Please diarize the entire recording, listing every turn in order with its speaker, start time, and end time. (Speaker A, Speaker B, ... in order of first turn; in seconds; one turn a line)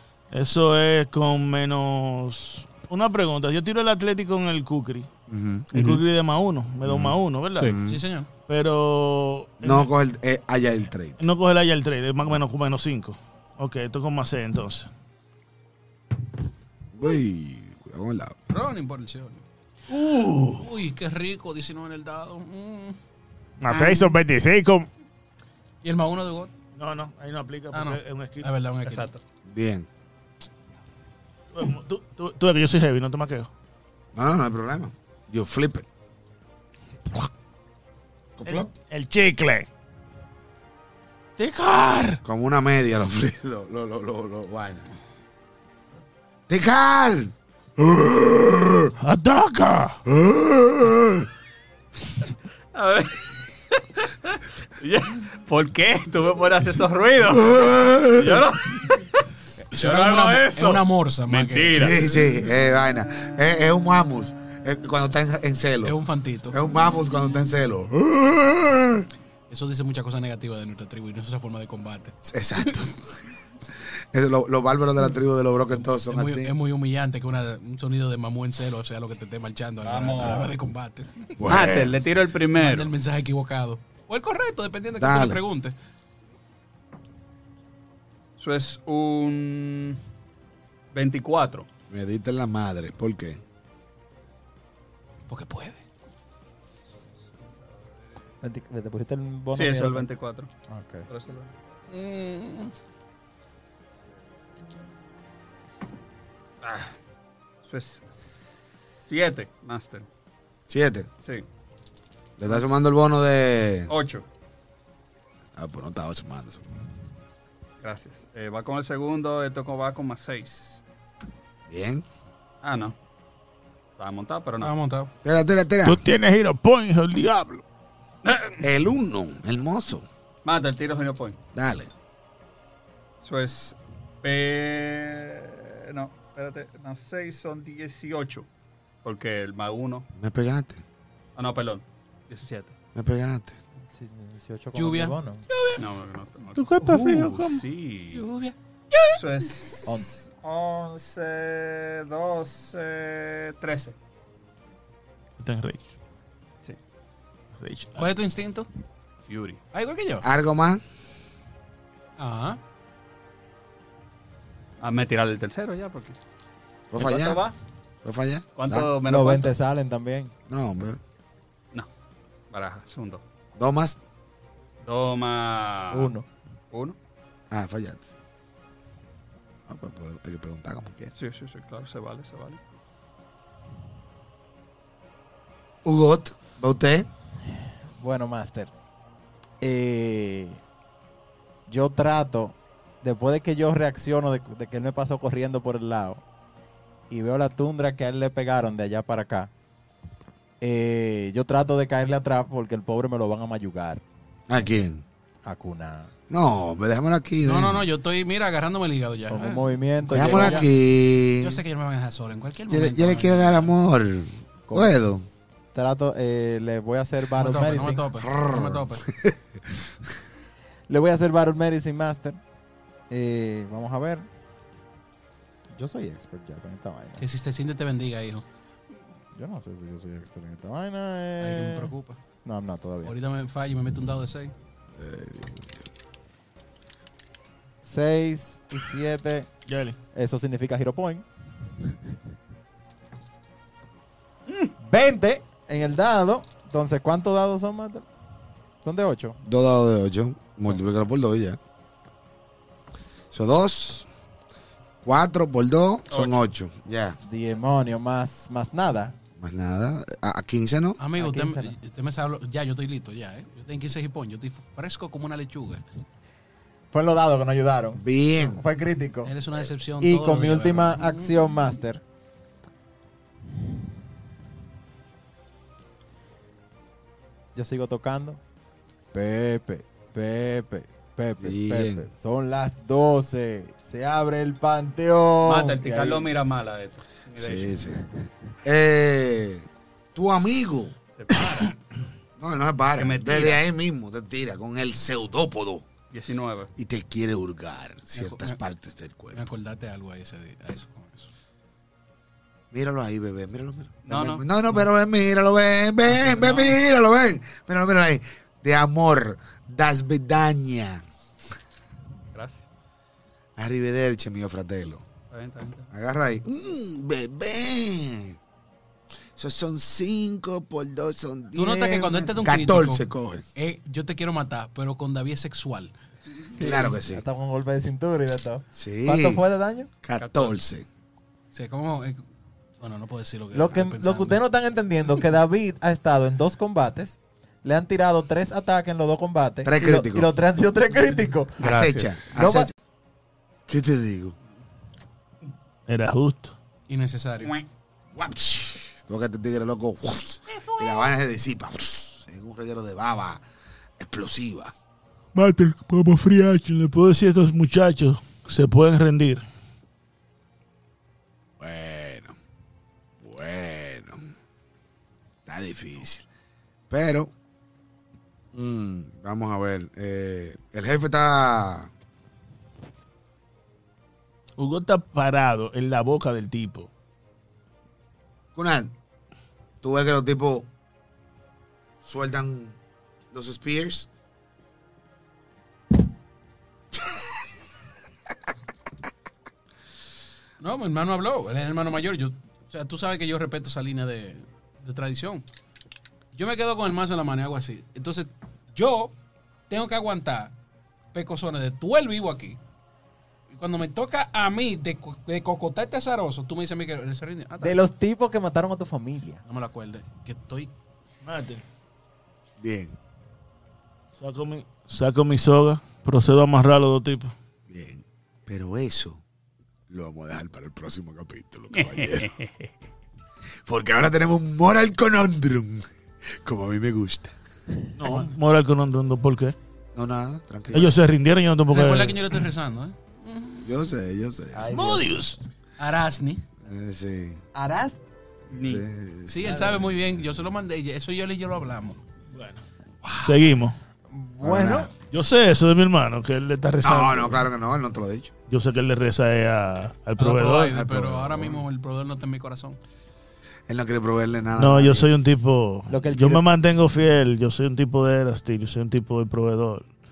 Speaker A: 0.3-5.1
Speaker B: 5.3-5.7
Speaker A: 5.7-7.8
Speaker C: 5.7-6.0
Speaker B: 6.8-8.0
Speaker D: 7.8-8.3
Speaker A: 8.5-9.9
Speaker B: 9.6-11.2
Speaker A: 11.2-14.9
Speaker B: 16.9-18.4
Speaker D: 18.5-19.4
Speaker A: 19.9-20.7
Speaker D: 20.5-23.0
Speaker A: 23.6-24.9
Speaker D: 25.8-26.5
Speaker A: 26.8-28.5
Speaker D: 27.7-29.1
Speaker C: 28.8-29.2
Speaker B: 29.5-29.9
Speaker A: 31.5-33.5
Speaker B: 34.1-35.9
Speaker B: 38.4-38.7
Speaker A: 38.5-39.7
Speaker A: 41.4-42.2
Speaker B: 42.2-44.8
Speaker B: 46.5-48.9
Speaker A: 49.0-50.0
Speaker B: 50.1-51.3
Speaker C: 52.7-53.2
Speaker C: 53.7-62.2
Speaker B: 57.5-58.4
Speaker D: 59.7-62.0
Speaker B: 61.7-66.0
Speaker D: 65.8-66.6
Speaker B: 66.5-69.1
Speaker D: 69.5-72.8
Speaker B: 72.2-73.0
Speaker B: 74.1-76.5
Speaker D: 75.7-81.7
Speaker C: 79.8-80.5
Speaker B: 81.4-82.0
Speaker C: 81.4-82.9
Speaker D: 82.5-85.7
Speaker B: 85.0-85.4
Speaker C: 88.4-90.0
Speaker C: 90.9-91.7
Speaker B: 91.9-93.4
Speaker D: 95.3-95.8
Speaker E: 98.4-100.1
Speaker C: 99.5-100.5
Speaker E: 100.7-101.1
Speaker C: 101.1-101.5
Speaker D: 101.9-102.7
Speaker C: 106.6-106.9
Speaker C: 107.6-110.1
Speaker B: 110.7-111.1
Speaker B: 112.4-113.9
Speaker C: 113.9-114.2
Speaker B: 115.5-116.6
Speaker C: 117.8-120.8
Speaker B: 121.7-122.0
Speaker C: 122.6-122.9
Speaker C: 124.0-124.7
Speaker D: 124.6-125.1
Speaker B: 125.2-126.0
Speaker A: 125.8-127.6
Speaker C: 128.2-128.6
Speaker B: 128.6-130.1
Speaker C: 130.4-131.4
Speaker B: 131.5-131.9
Speaker C: 133.2-138.5
Speaker C: 139.0-140.1
Speaker B: 140.1-140.8
Speaker C: 141.3-142.8
Speaker B: 142.9-143.6
Speaker E: 143.9-145.5
Speaker D: 144.7-145.8
Speaker C: 145.8-148.2
Speaker A: 146.5-147.6
Speaker D: 148.1-149.5
Speaker C: 149.1-153.9
Speaker E: 149.8-150.1
Speaker A: 155.4-155.8
Speaker A: 157.6-158.1
Speaker D: 157.9-158.7
Speaker C: 159.3-159.6
Speaker D: 159.7-160.2
Speaker B: 160.2-160.8
Speaker D: 162.2-162.6
Speaker C: 164.8-166.2
Speaker B: 166.9-167.4
Speaker C: 167.0-167.6
Speaker B: 168.0-168.9
Speaker C: 168.6-169.5
Speaker E: 169.0-170.3
Speaker B: 170.5-171.0
Speaker C: 172.5-173.2
Speaker B: 173.6-174.0
Speaker C: 174.8-176.1
Speaker E: 175.9-176.2
Speaker C: 176.7-177.0
Speaker B: 177.5-178.1
Speaker B: 179.7-181.1
Speaker C: 181.1-182.6
Speaker B: 185.8-187.1
Speaker E: 188.0-188.7
Speaker E: 189.6-190.6
Speaker E: 191.7-196.2
Speaker E: 197.1-199.5
Speaker E: 200.6-204.0
Speaker B: 204.5-205.0
Speaker E: 205.4-206.1
Speaker B: 206.3-207.8
Speaker D: 207.4-210.7
Speaker E: 209.3-210.6
Speaker B: 210.1-211.6
Speaker D: 211.4-213.7
Speaker B: 212.7-215.2
Speaker E: 214.7-214.9
Speaker E: 215.7-218.0
Speaker D: 217.3-219.1
Speaker B: 218.2-220.1
Speaker E: 220.9-222.4
Speaker E: 223.1-224.3
Speaker E: 225.7-227.2
Speaker D: 227.2-228.4
Speaker E: 229.3-231.9
Speaker D: 231.4-232.2
Speaker E: 232.4-233.1
Speaker D: 233.0-234.5
Speaker B: 235.0-235.7
Speaker E: 237.8-239.5
Speaker A: 239.7-240.0
Speaker E: 240.1-241.2
Speaker E: 244.8-248.0
Speaker E: 248.8-249.4
Speaker B: 249.4-251.6
Speaker B: 253.3-254.1
Speaker B: 255.0-257.2
Speaker C: 256.1-256.4
Speaker E: 257.2-259.1
Speaker B: 259.4-261.0
Speaker D: 261.0-265.8
Speaker E: 261.1-261.8
Speaker E: 266.9-269.3
Speaker B: 268.0-268.6
Speaker D: 269.2-271.6
Speaker E: 270.0-272.0
Speaker E: 277.5-278.4
Speaker E: 279.1-286.3
Speaker B: 281.4-282.1
Speaker C: 285.4-287.9
Speaker B: 287.4-288.0
Speaker B: 288.6-290.9
Speaker C: 291.1-291.8
Speaker B: 292.4-295.9
Speaker C: 292.9-293.6
Speaker C: 296.1-296.7
Speaker B: 296.8-299.5
Speaker D: 298.1-298.6
Speaker D: 299.3-301.3
Speaker B: 302.7-311.0
Speaker C: 304.1-304.4
Speaker D: 306.1-306.8
Speaker C: 312.3-312.6
Speaker B: 313.6-315.0
Speaker C: 315.3-315.9
Speaker B: 315.9-318.4
Speaker B: 319.4-323.4
Speaker D: 321.5-323.0
Speaker D: 323.6-325.9
Speaker E: 326.5-329.9
Speaker B: 326.6-327.2
Speaker B: 328.7-329.4
Speaker B: 330.0-330.9
Speaker C: 330.2-330.6
Speaker D: 331.5-332.2
Speaker D: 332.8-334.4
Speaker E: 333.5-341.6
Speaker B: 339.6-340.3
Speaker C: 341.6-342.3
Speaker B: 341.6-342.7
Speaker E: 342.3-342.7
Speaker B: 343.7-344.3
Speaker A: 345.9-346.5
Speaker D: 346.9-347.6
Speaker B: 348.1-353.4
Speaker B: 354.0-354.7
Speaker A: 355.3-359.4
Speaker B: 361.6-362.3
Speaker B: 363.2-364.2
Speaker B: 365.4-366.3
Speaker B: 366.9-367.3
Speaker B: 368.5-371.9
Speaker A: 374.6-376.9
Speaker B: 378.5-378.9
Speaker B: 379.8-380.7
Speaker B: 382.0-382.8
Speaker B: 383.3-384.1
Speaker D: 390.6-395.4
Speaker D: 396.3-399.1
Speaker D: 399.7-400.5
Speaker D: 401.1-402.6
Speaker D: 403.5-407.8
Speaker E: 407.6-409.4
Speaker D: 409.4-410.7
Speaker A: 411.2-411.6
Speaker B: 412.6-412.9
Speaker A: 414.2-417.3
Speaker B: 417.7-419.2
Speaker B: 419.9-422.3
Speaker C: 421.7-422.7
Speaker B: 423.6-425.9
Speaker B: 426.4-427.3
Speaker A: 428.0-429.5
Speaker D: 428.0-428.3
Speaker B: 429.9-431.0
Speaker A: 430.7-432.4
Speaker D: 431.7-433.7
Speaker B: 433.6-434.7
Speaker E: 434.5-435.3
Speaker A: 434.7-435.4
Speaker D: 435.8-436.4
Speaker B: 436.6-437.4
Speaker E: 437.5-438.0
Speaker C: 438.5-438.8
Speaker B: 438.6-439.8
Speaker D: 439.3-442.0
Speaker A: 442.3-442.6
Speaker A: 443.2-443.8
Speaker E: 444.1-444.9
Speaker B: 444.4-444.9
Speaker A: 445.0-447.4
Speaker B: 446.8-448.3
Speaker A: 448.5-450.8
Speaker D: 450.2-452.8
Speaker B: 450.7-451.6
Speaker B: 453.7-455.1
Speaker A: 454.6-459.9
Speaker E: 455.9-456.4